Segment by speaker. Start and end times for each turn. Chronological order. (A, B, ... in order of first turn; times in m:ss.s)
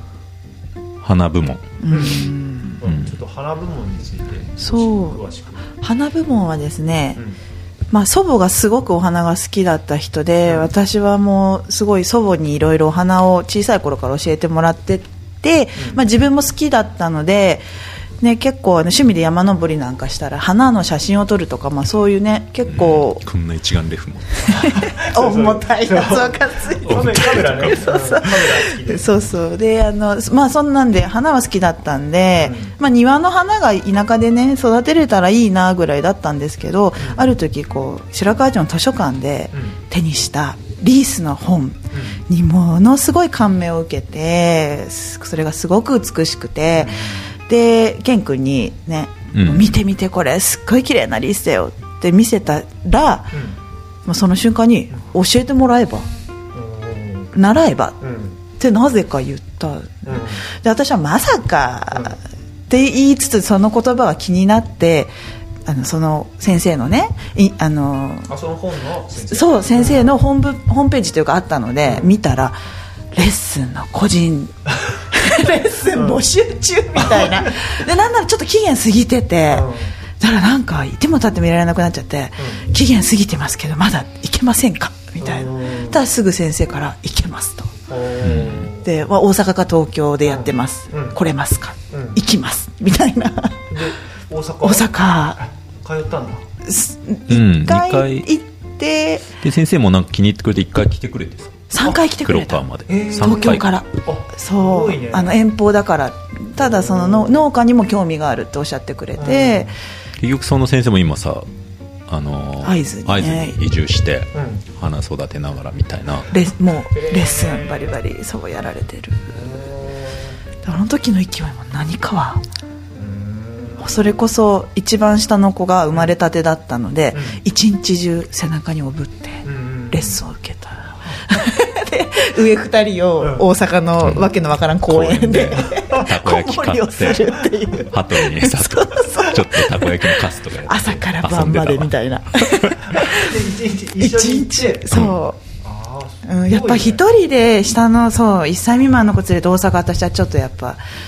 0:01.0-0:01.7 A
0:01.8-0:02.8 B
0:01.9-0:05.6 C
0:04.6-0:07.2 B
0:07.9-0:17.6 B
0:10.4-0:10.7 C
0:15.8-0:16.0 C
0:18.2-0:23.2 B
0:22.7-0:24.6 A
0:24.4-0:53.4 B
0:24.5-0:29.1 C
0:26.9-0:27.9 A
0:32.4-0:32.7 C
0:37.0-0:37.3 C
0:39.5-0:39.8 C
0:41.9-0:42.2 C
0:46.7-0:47.3 C
0:49.3-0:49.8 A
0:53.3-0:53.6 C
0:54.0-0:56.1 B
0:56.5-0:57.3 C
0:57.3-0:58.0 B
0:58.0-0:58.4 C
0:58.6-1:05.1 B
1:00.0-1:00.4 C
1:01.9-1:02.2 C
1:05.6-1:08.3 B
1:08.3-1:10.2 C
1:09.2-1:12.6 B
1:11.8-1:12.1 C
1:13.1-1:14.5 B
1:15.1-1:27.7 B
1:15.9-1:16.2 C
1:17.0-1:17.8 C
1:19.5-1:20.0 C
1:22.4-1:22.6 C
1:25.2-1:26.0 C
1:27.9-1:28.9 C
1:28.2-1:28.7 A
1:28.8-1:33.7 B
1:30.2-1:31.2 C
1:31.9-1:32.2 C
1:33.7-1:36.4 C
1:34.6-1:35.4 B
1:36.6-1:39.3 B
1:37.3-1:38.3 A
1:39.4-1:41.6 A
1:41.7-1:49.7 B
1:42.2-1:43.6 A
1:42.9-1:45.4 C
1:46.6-1:47.5 C
1:49.2-1:49.8 C
1:50.2-1:51.5 A
1:52.1-1:56.3 A
1:52.6-1:53.6 B
1:54.3-1:54.6 C
1:56.3-1:59.3 B
1:56.9-1:58.0 C
1:59.3-2:00.4 C
2:00.6-2:02.4 B
2:02.9-2:04.2 C
2:03.8-2:20.1 B
2:07.1-2:07.4 C
2:09.4-2:10.2 C
2:11.0-2:11.3 C
2:13.2-2:13.4 C
2:14.0-2:22.7 A
2:15.5-2:16.1 C
2:20.6-2:23.4 B
2:22.8-2:25.0 C
2:24.0-2:25.4 B
2:24.9-2:25.2 A
2:25.6-2:27.0 C
2:26.2-2:30.8 B